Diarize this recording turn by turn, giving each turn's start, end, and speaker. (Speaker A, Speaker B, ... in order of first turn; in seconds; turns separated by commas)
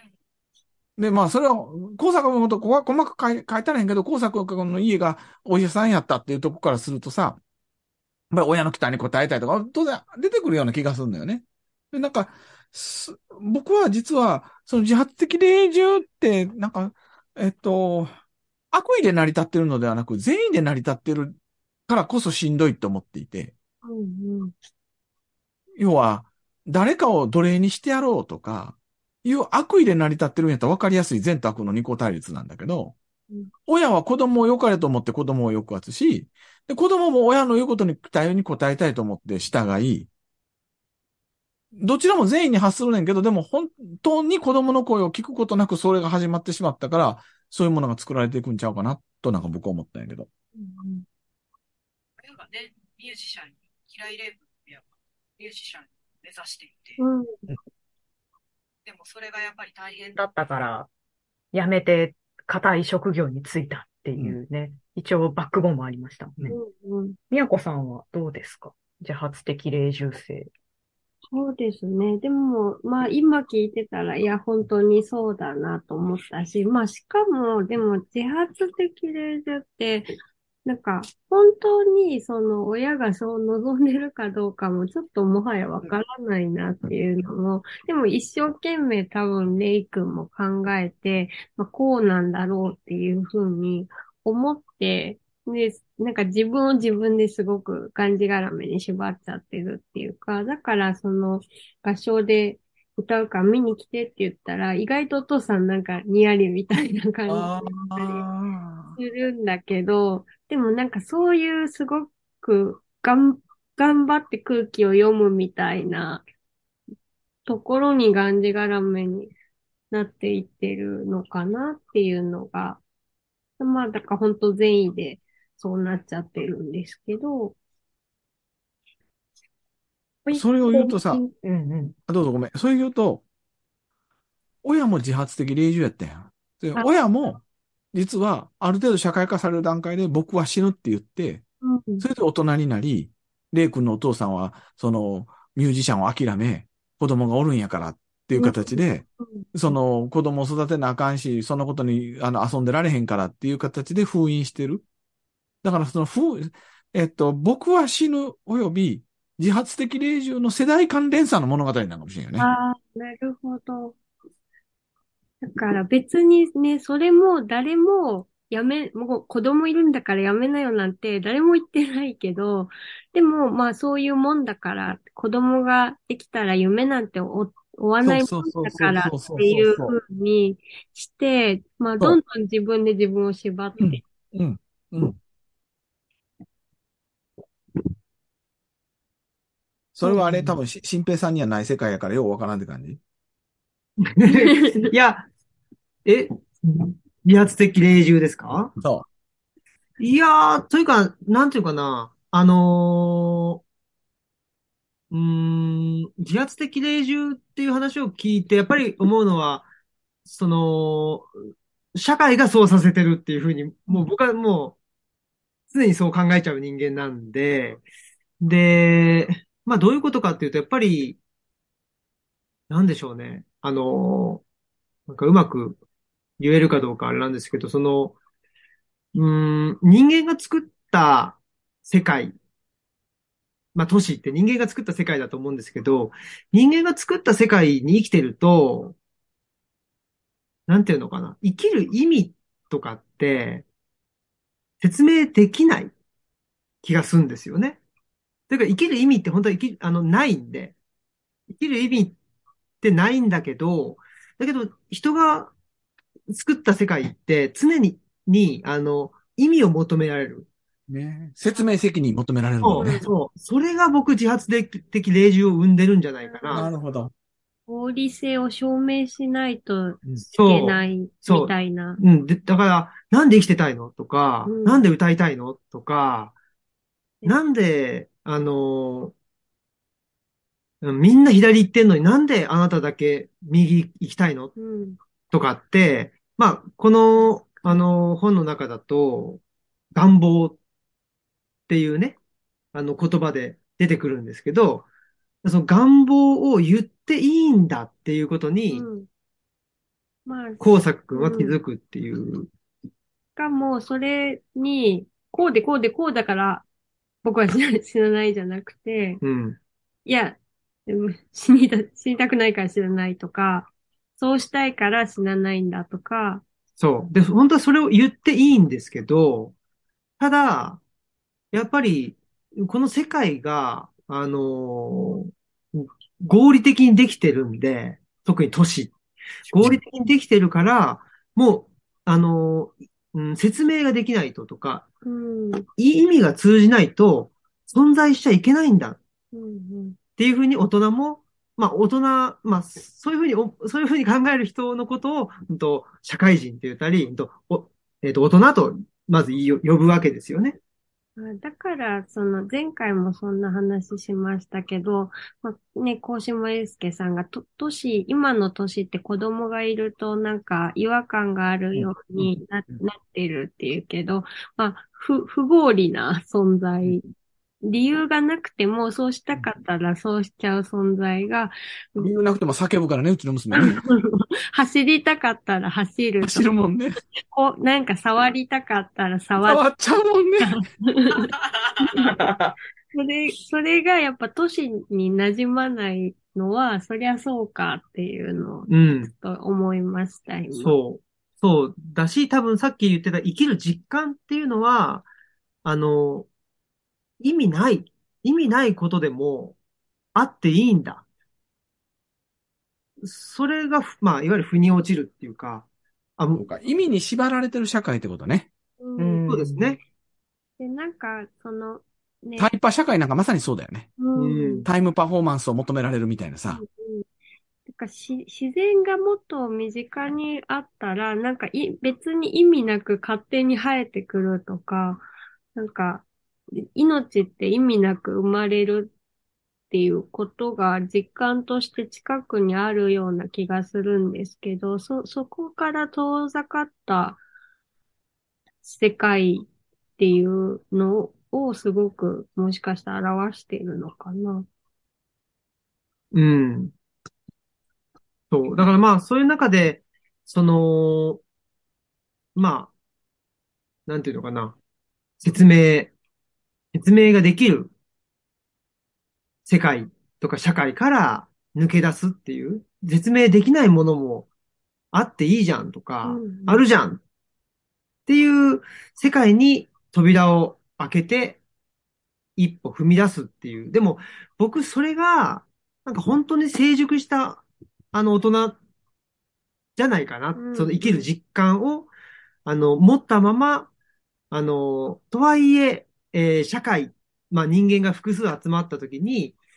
Speaker A: 1.0-7.4, Speaker A: 8.3-18.1, Speaker A: 18.7-21.4, Speaker A: 21.9-23.5, Speaker B: 23.8-24.5, Speaker A: 25.8-33.0, Speaker A: 33.7-40.1, Speaker A: 41.8-50.3, Speaker B: 50.5-51.0, Speaker C: 52.2-57.0, Speaker B: 57.0-57.4, Speaker C: 58.9-60.2, Speaker D: 60.2-60.9, Speaker D: 61.5-66.6, Speaker B: 66.5-67.2, Speaker D: 67.3-70.5, Speaker B: 71.3-80.1, Speaker B: 80.7-108.2, Speaker A: 107.3-109.0, Speaker B: 109.0-116.2, Speaker B: 117.5-119.3, Speaker B: 119.9-122.8, Speaker B: 123.6-127.6, Speaker D: 130.3-131.9, Speaker A: 130.3-131.2, Speaker A: 132.1-133.2, Speaker A: 134.6-137.4, Speaker A: 137.9-141.4, Speaker B: 141.6-142.1, Speaker A: 142.0-154.8, Speaker B: 148.3-149.7, Speaker A: 155.6-162.5, Speaker B: 162.4-164.0, Speaker B: 165.4-184.0, Speaker A: 178.0-180.0, Speaker A: 183.8-185.2, Speaker A: 189.9-193.0, Speaker E: 190.1-190.6, Speaker E: 194.0-195.3, Speaker B: 194.3-194.9, Speaker E: 196.1-198.7, Speaker A: 198.8-199.1, Speaker E: 200.0-203.6, Speaker E: 205.1-209.7, Speaker E: 210.2-211.3, Speaker E: 211.9-214.8, Speaker E: 215.7-217.8, Speaker E: 218.4-221.2, Speaker E: 222.7-224.4, Speaker E: 225.1-225.8, Speaker E: 226.4-228.1, Speaker E: 229.1-232.3, Speaker E: 233.8-238.9, Speaker E: 240.7-243.7, Speaker E: 244.8-245.9, Speaker E: 246.8-247.8, Speaker E: 248.5-250.7, Speaker E: 251.5-252.2, Speaker E: 252.8-255.5, Speaker E: 256.3-260.5, Speaker A: 260.9-263.1, Speaker E: 262.6-266.7, Speaker B: 262.8-263.1, Speaker B: 266.2-266.8, Speaker A: 266.5-267.1, Speaker B: 267.7-272.0, Speaker E: 270.3-276.3, Speaker B: 274.4-274.8, Speaker E: 277.2-279.1, Speaker E: 280.8-284.5, Speaker B: 284.6-285.0, Speaker E: 285.3-289.4, Speaker E: 289.9-290.6, Speaker E: 291.7-292.2, Speaker E: 292.7-294.9, Speaker E: 295.4-298.9, Speaker B: 298.7-299.1, Speaker B: 300.3-301.6, Speaker E: 300.6-302.5, Speaker B: 303.4-306.6, Speaker B: 307.2-309.2, Speaker E: 309.2-309.6, Speaker B: 310.1-316.4, Speaker E: 316.8-319.5, Speaker E: 320.2-320.8, Speaker E: 321.5-328.9, Speaker E: 329.5-334.9, Speaker B: 335.1-335.7, Speaker E: 335.8-339.0, Speaker B: 339.3-340.0, Speaker E: 340.2-350.6, Speaker B: 351.2-367.1, Speaker A: 361.7-362.3, Speaker B: 367.6-372.1, Speaker A: 372.0-373.9, Speaker B: 373.6-376.5, Speaker A: 376.2-377.0, Speaker B: 377.3-379.7, Speaker A: 379.4-380.6, Speaker B: 380.4-381.3, Speaker C: 381.3-381.8, Speaker B: 381.9-382.2, Speaker D: 382.0-382.6, Speaker B: 382.9-390.8, Speaker E: 388.7-389.1, Speaker E: 390.6-395.1, Speaker E: 395.6-396.3, Speaker E: 397.2-399.6, Speaker E: 400.1-401.0, Speaker E: 403.0-405.7, Speaker E: 406.2-406.4, Speaker A: 406.4-408.5, Speaker B: 408.8-409.2, Speaker D: 409.0-409.8, Speaker E: 409.3-409.8, Speaker B: 410.6-412.5, Speaker A: 412.4-413.9, Speaker B: 414.0-414.7, Speaker E: 414.1-414.7, Speaker A: 414.7-416.6, Speaker B: 416.5-417.1, Speaker B: 417.7-425.0, Speaker B: 425.6-426.1, Speaker B: 426.6-428.9, Speaker B: 429.7-437.2, Speaker B: 438.6-444.5, Speaker E: 446.1-446.7, Speaker E: 448.3-451.2, Speaker E: 452.4-452.7, Speaker E: 453.9-454.6, Speaker E: 455.2-455.9, Speaker E: 456.7-457.7, Speaker E: 459.5-464.3, Speaker E: 464.9-467.0, Speaker B: 466.0-466.6, Speaker E: 468.1-471.4, Speaker E: 472.4-478.6, Speaker E: 479.8-481.9, Speaker B: 480.4-481.1, Speaker E: 482.4-483.7, Speaker E: 484.3-489.4